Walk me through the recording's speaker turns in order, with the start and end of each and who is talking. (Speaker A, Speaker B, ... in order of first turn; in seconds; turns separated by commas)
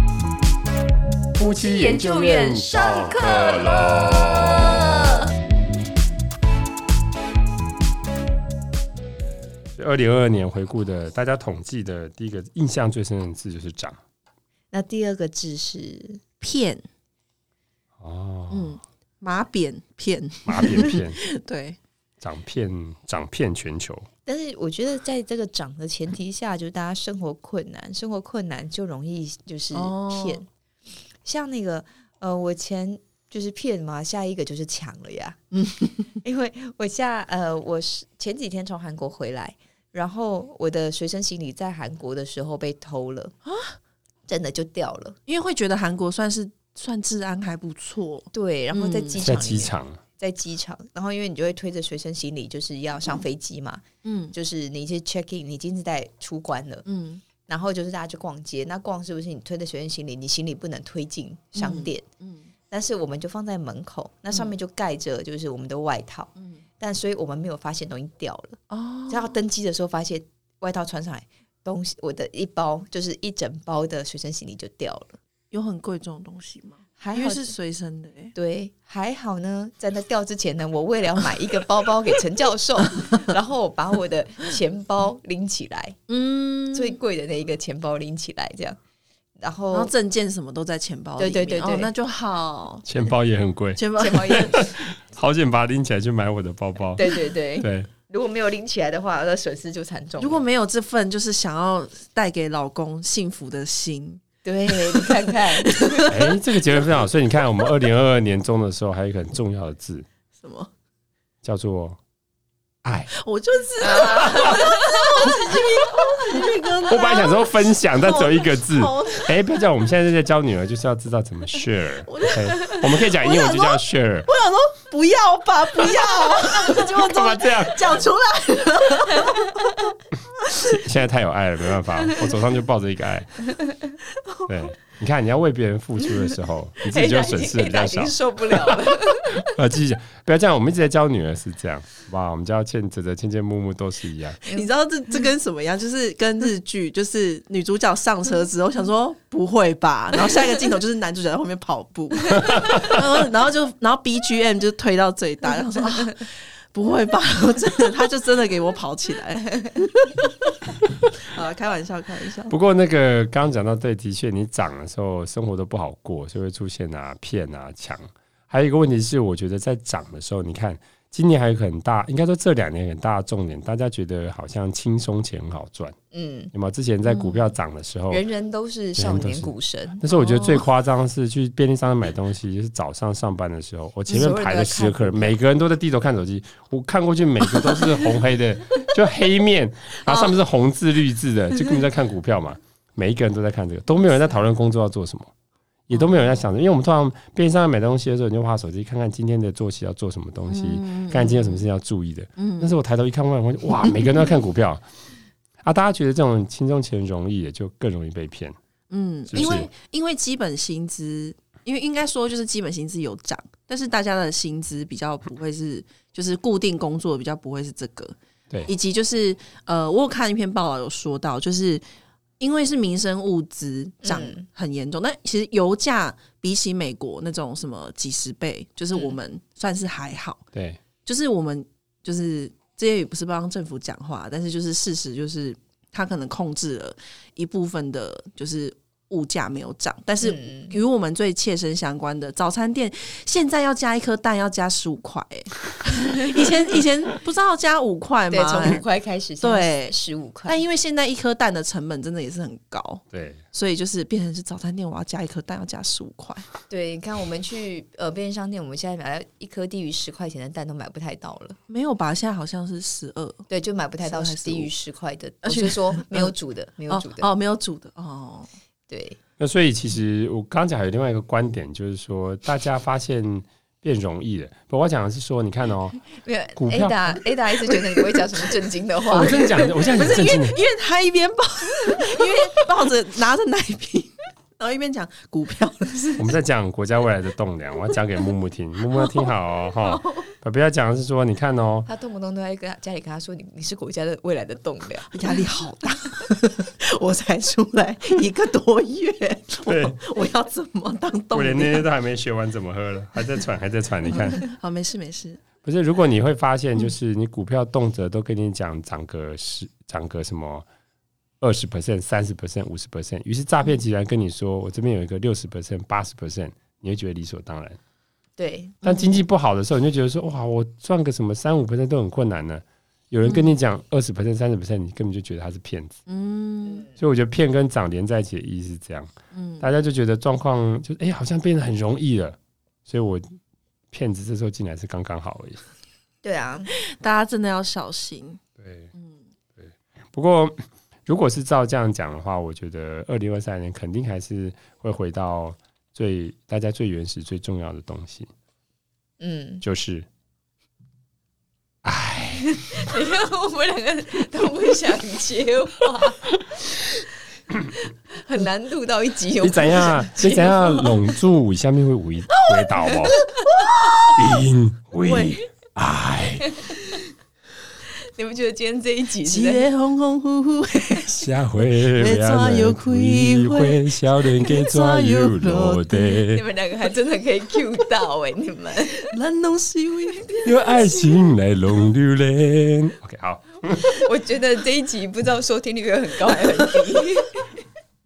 Speaker A: 1.4-5.2, Speaker B: 1.6-4.9, Speaker A: 9.8-14.0, Speaker B: 14.7-16.2, Speaker C: 16.4-16.8, Speaker A: 18.0-18.8, Speaker C: 18.5-21.8, Speaker A: 20.5-21.2, Speaker A: 22.2-24.1, Speaker B: 24.3-30.5, Speaker C: 29.7-30.4, Speaker B: 31.2-35.4, Speaker C: 35.5-36.1, Speaker B: 36.2-43.4, Speaker C: 43.5-43.8, Speaker B: 44.3-45.2, Speaker C: 45.3-49.2, Speaker B: 48.3-56.9, Speaker A: 49.2-50.0, Speaker C: 54.0-54.3, Speaker C: 56.9-57.2, Speaker B: 57.5-62.1, Speaker C: 61.6-62.5, Speaker B: 62.7-75.2, Speaker C: 68.7-69.3, Speaker C: 75.5-78.3, Speaker B: 77.0-77.6, Speaker B: 78.3-86.0, Speaker C: 86.1-87.0, Speaker B: 86.7-88.8, Speaker B: 89.4-89.9, Speaker C: 89.7-92.9, Speaker B: 91.2-91.9, Speaker A: 92.9-97.0, Speaker C: 93.8-94.5, Speaker B: 94.0-94.7, Speaker B: 97.0-100.5, Speaker A: 97.6-97.9, Speaker C: 100.2-106.4, Speaker B: 104.4-106.1, Speaker A: 106.1-110.1, Speaker C: 110.4-110.7, Speaker A: 111.4-112.0, Speaker A: 112.8-113.1, Speaker C: 113.1-119.5, Speaker B: 113.8-115.3, Speaker A: 116.9-124.3, Speaker C: 122.1-129.7, Speaker A: 126.9-128.0, Speaker C: 130.4-130.8, Speaker A: 130.5-133.4, Speaker A: 134.5-138.2, Speaker B: 136.9-139.3, Speaker A: 139.4-144.4, Speaker C: 144.4-160.6, Speaker C: 161.1-162.5, Speaker A: 162.5-175.9, Speaker B: 176.1-176.5, Speaker A: 176.5-178.2, Speaker C: 177.1-177.5, Speaker B: 178.1-180.0, Speaker A: 179.0-195.3, Speaker C: 180.1-180.7, Speaker B: 184.1-185.3, Speaker C: 190.0-190.3, Speaker A: 195.9-204.8, Speaker C: 195.9-196.4, Speaker C: 200.5-201.7, Speaker C: 202.4-202.8, Speaker A: 205.6-208.6, Speaker C: 208.9-218.2, Speaker A: 209.3-209.7, Speaker C: 218.7-221.8, Speaker C: 222.4-230.4, Speaker B: 224.1-224.4, Speaker A: 230.5-230.8, Speaker C: 231.1-248.8, Speaker B: 240.2-240.8, Speaker B: 248.3-250.6, Speaker C: 249.4-249.9, Speaker C: 250.5-256.5, Speaker A: 253.1-253.4, Speaker B: 256.7-261.6, Speaker C: 261.7-263.4, Speaker B: 263.5-267.3, Speaker C: 264.0-264.7, Speaker C: 265.4-266.3, Speaker C: 266.9-268.5, Speaker B: 268.9-269.2, Speaker A: 269.4-276.0, Speaker B: 276.2-280.0, Speaker A: 276.6-277.2, Speaker A: 279.1-280.6, Speaker C: 279.1-286.3, Speaker A: 286.2-291.9, Speaker C: 289.0-290.3, Speaker B: 291.9-295.1, Speaker C: 295.1-301.9, Speaker A: 299.7-300.0, Speaker A: 301.3-304.5, Speaker C: 304.1-305.4, Speaker A: 305.6-310.6, Speaker A: 311.4-317.8, Speaker B: 318.4-318.8, Speaker A: 318.8-326.0, Speaker C: 318.8-319.2, Speaker C: 323.2-323.6, Speaker C: 326.1-326.9, Speaker A: 327.0-333.2, Speaker C: 329.3-329.7, Speaker A: 333.9-335.6, Speaker B: 336.2-336.7, Speaker C: 336.7-338.4, Speaker A: 338.6-338.9, Speaker A: 339.6-348.3, Speaker B: 349.2-349.6, Speaker A: 349.6-350.1, Speaker A: 351.8-352.4, Speaker B: 352.4-356.3, Speaker B: 358.1-360.8, Speaker A: 359.4-363.2, Speaker C: 362.4-364.4, Speaker A: 364.2-366.5, Speaker C: 365.0-365.4, Speaker B: 366.5-366.8, Speaker B: 368.1-369.6, Speaker C: 369.2-376.2, Speaker A: 371.2-376.4, Speaker B: 376.3-379.1, Speaker C: 379.1-380.8, Speaker A: 380.4-384.0, Speaker B: 383.8-387.4